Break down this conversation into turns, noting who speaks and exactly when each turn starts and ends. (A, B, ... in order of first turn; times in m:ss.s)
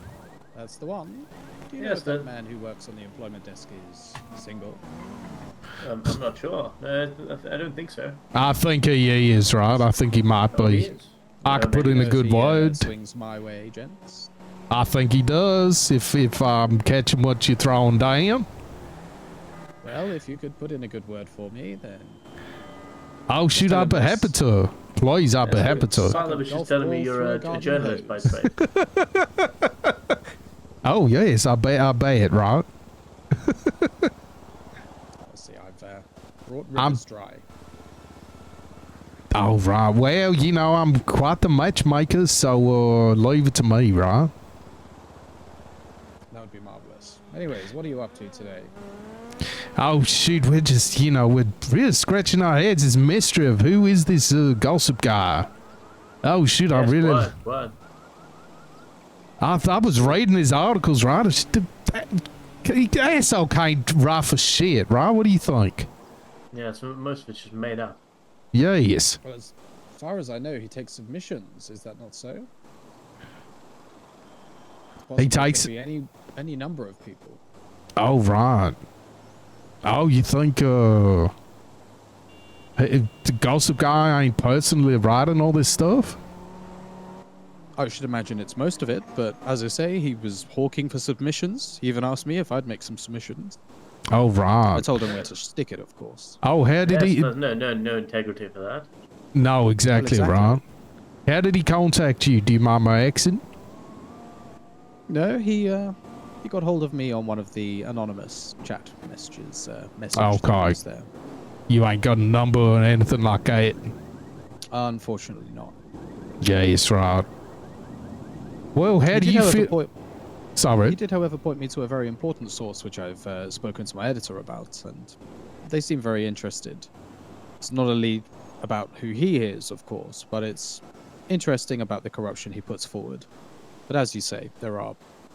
0:00.5-0:04.8 A
0:01.8-0:02.2 B
0:05.8-0:08.2 B
0:08.3-0:10.9 C
0:10.5-0:12.2 B
0:11.4-0:12.9 C
0:11.6-0:14.3 A
0:14.7-0:18.5 C
0:19.8-0:22.2 A
0:23.3-0:26.1 C
0:23.5-0:24.3 A
0:25.4-0:28.6 B
0:26.0-0:28.3 A
0:28.7-0:29.5 C
0:30.8-0:32.6 C
0:33.4-0:34.1 C
0:35.2-0:37.4 A
0:39.3-0:44.3 C
0:46.3-0:48.7 A
0:49.8-0:55.5 C
0:56.2-0:57.3 C
0:56.7-0:57.8 B
0:59.4-1:05.9 C
1:06.5-1:08.0 B
1:08.5-1:09.2 C
1:09.2-1:12.5 A
1:15.0-1:17.4 A
1:15.2-1:15.7 C
1:18.0-1:18.8 C
1:19.8-1:21.3 C
1:22.8-1:26.2 C
1:27.8-1:33.6 A
1:34.1-1:34.9 C
1:34.7-1:36.4 A
1:36.4-1:37.3 C
1:36.8-1:38.9 B
1:39.3-1:40.6 C
1:39.9-1:40.6 A
1:41.2-1:43.4 C
1:45.1-1:51.1 A
1:50.1-1:50.8 C
1:51.7-1:53.9 C
1:54.7-1:55.7 A
1:56.4-1:57.3 C
1:58.7-1:59.7 C
1:59.1-1:59.9 A
2:00.6-2:01.0 C
2:00.8-2:06.9 A
2:07.6-2:13.3 A
2:13.9-2:15.0 A